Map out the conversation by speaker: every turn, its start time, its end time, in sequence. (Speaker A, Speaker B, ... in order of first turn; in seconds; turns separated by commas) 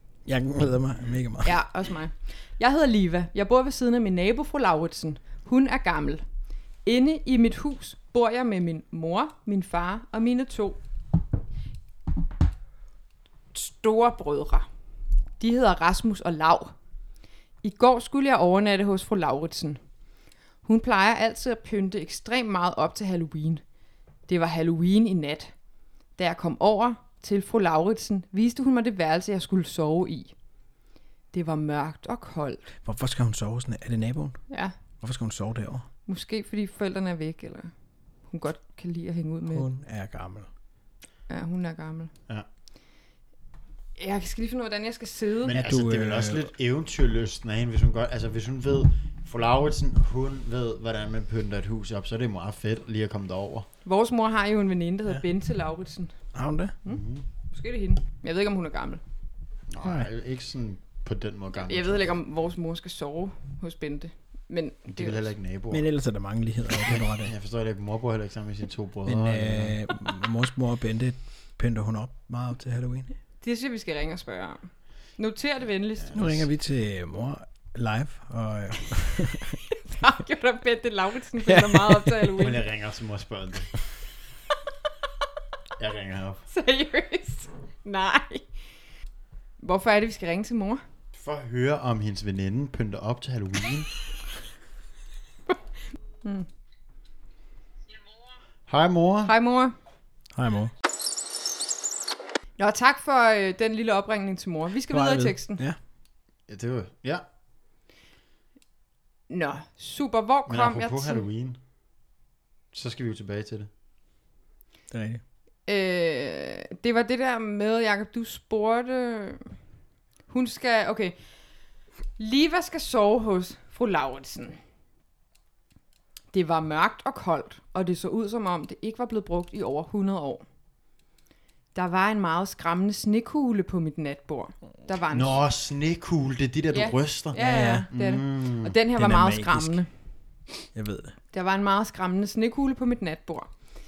Speaker A: 0.2-1.6, Speaker B: 1.4-6.2, Speaker B: 6.8-10.8, Speaker B: 13.5-14.7, Speaker B: 15.4-16.7, Speaker B: 17.6-19.8, Speaker B: 20.6-23.6, Speaker B: 24.3-25.5, Speaker B: 26.2-30.3, Speaker B: 31.3-32.7, Speaker A: 32.8-34.4, Speaker A: 35.0-35.9, Speaker B: 36.1-37.7, Speaker B: 38.3-39.7, Speaker A: 39.5-40.5, Speaker B: 41.3-42.1, Speaker B: 44.0-45.5, Speaker C: 45.4-53.7, Speaker A: 45.5-46.5, Speaker B: 53.8-56.1, Speaker A: 56.3-56.8, Speaker B: 56.8-59.0, Speaker C: 56.9-57.2, Speaker C: 59.7-62.1, Speaker A: 59.8-60.1, Speaker B: 61.5-65.3, Speaker C: 64.9-65.8, Speaker A: 65.7-67.3, Speaker C: 66.8-69.8, Speaker A: 69.0-73.1, Speaker B: 73.4-76.2, Speaker C: 76.1-76.4, Speaker A: 76.1-79.6, Speaker B: 79.7-82.6, Speaker A: 81.4-82.4, Speaker C: 82.4-83.7, Speaker C: 85.8-86.4, Speaker B: 86.5-88.5, Speaker B: 89.6-90.8, Speaker C: 91.1-93.9, Speaker C: 98.7-99.3, Speaker B: 99.2-99.7, Speaker A: 100.3-100.7, Speaker B: 102.6-105.6, Speaker A: 104.9-105.8, Speaker C: 106.5-107.2, Speaker B: 109.3-111.2, Speaker C: 110.5-111.6, Speaker C: 112.7-113.7, Speaker A: 114.9-115.2, Speaker B: 115.7-119.5, Speaker B: 120.3-121.2, Speaker B: 122.2-124.6, Speaker B: 126.3-130.4, Speaker B: 131.7-135.4, Speaker C: 135.1-137.4, Speaker B: 136.7-139.9, Speaker A: 137.3-137.9, Speaker C: 137.9-138.7, Speaker A: 139.0-139.8, Speaker A: 140.7-141.1, Speaker B: 141.3-143.5